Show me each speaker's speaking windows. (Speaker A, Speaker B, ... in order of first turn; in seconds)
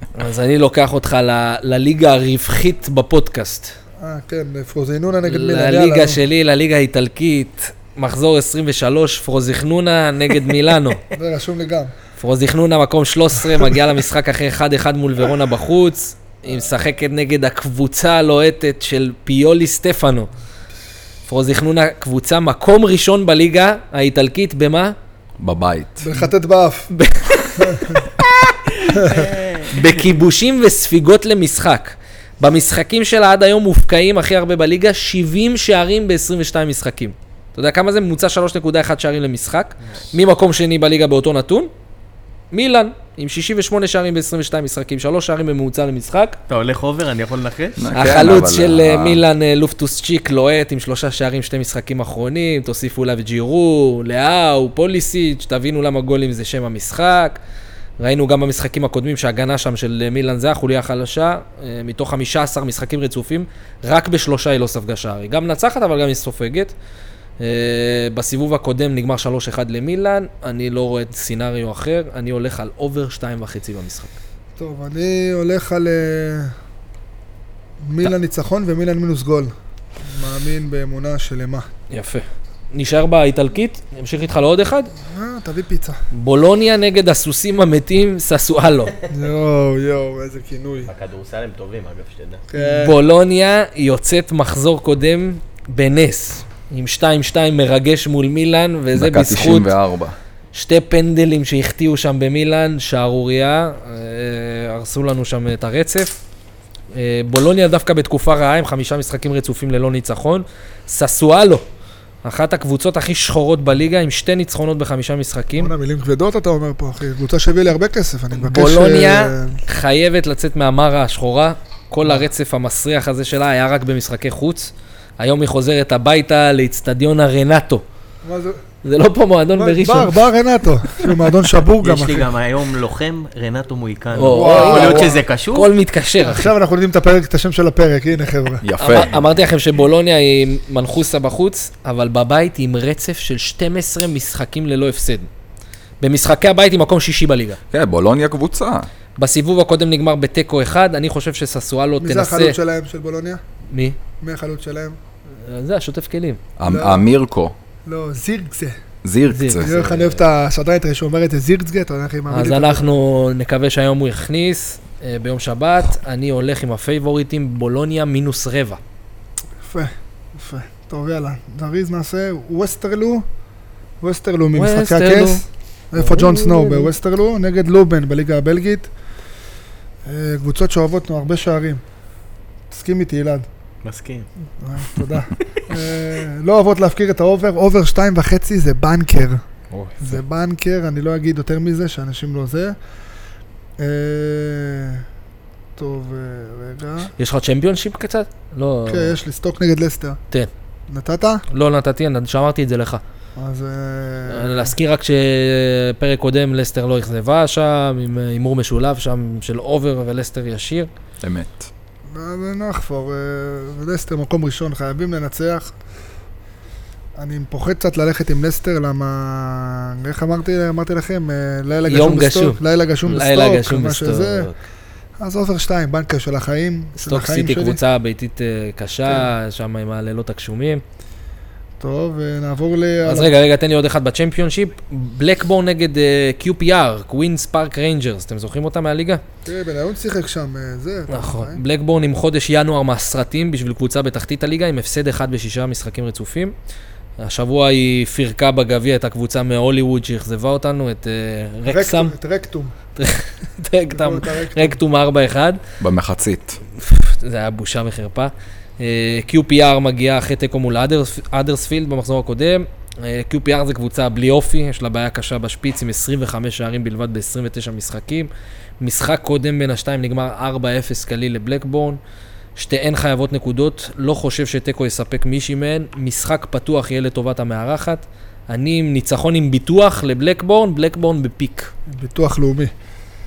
Speaker A: 0.1-3.8, 5.2-11.0, 12.2-20.3, 21.3-25.0, 26.9-28.1, 29.7-41.7, 42.5-46.4, 47.9-57.4, 58.0-66.7, 67.4-74.2, 81.9-84.9, 86.1-88.9, 92.6-99.7, 100.5-106.2, 106.9-111.7, 112.2-115.7, 118.3-127.8, 128.8-130.2, 134.1-136.5, 138.8-145.3, 146.0-147.6, 149.2-152.6, 153.7-154.0, 155.4-156.4, 159.3-160.1, 162.3-168.8, 174.5-175.4, 176.0-176.9, 197.2-199.2, 201.5-203.0, 204.3-210.9, 221.9-224.6, 227.0-230.8, 233.1-239.2, 241.1-246.5, 247.2-252.1, 253.0-255.6, 256.8-272.0, 272.6-281.7
Speaker B: 4.0-6.2, 11.1-11.9, 26.0-26.9, 27.6-28.1, 28.9-29.3, 74.6-76.5, 77.8-81.7, 85.0-86.0, 89.1-90.9, 92.5-93.0, 115.6-119.6, 128.2-128.6, 129.6-132.3, 134.2-135.2, 136.2-138.6, 152.0-153.4, 154.2-155.0, 156.7-157.1, 157.9-158.8, 159.6-162.8, 169.6-173.2, 174.0-178.9, 180.1-181.8, 182.7-183.5, 184.6-189.4, 190.0-192.8, 193.8-195.1, 195.8-197.1, 198.9-200.2, 200.9-201.4, 203.4-204.7, 212.1-215.7, 217.2-224.5, 225.2-227.8, 231.8-233.3, 239.4-241.6, 251.7-252.7, 253.9-254.8, 281.9-282.7
Speaker C: 25.4-26.1, 47.8-49.2, 99.0-100.2, 138.6-139.2, 147.7-148.9, 156.6-157.6, 159.0-159.7, 211.2-211.7, 255.8-256.6
Speaker D: 29.1-29.7, 46.5-47.9, 90.8-92.5, 131.8-135.7, 183.8-184.3, 189.7-190.0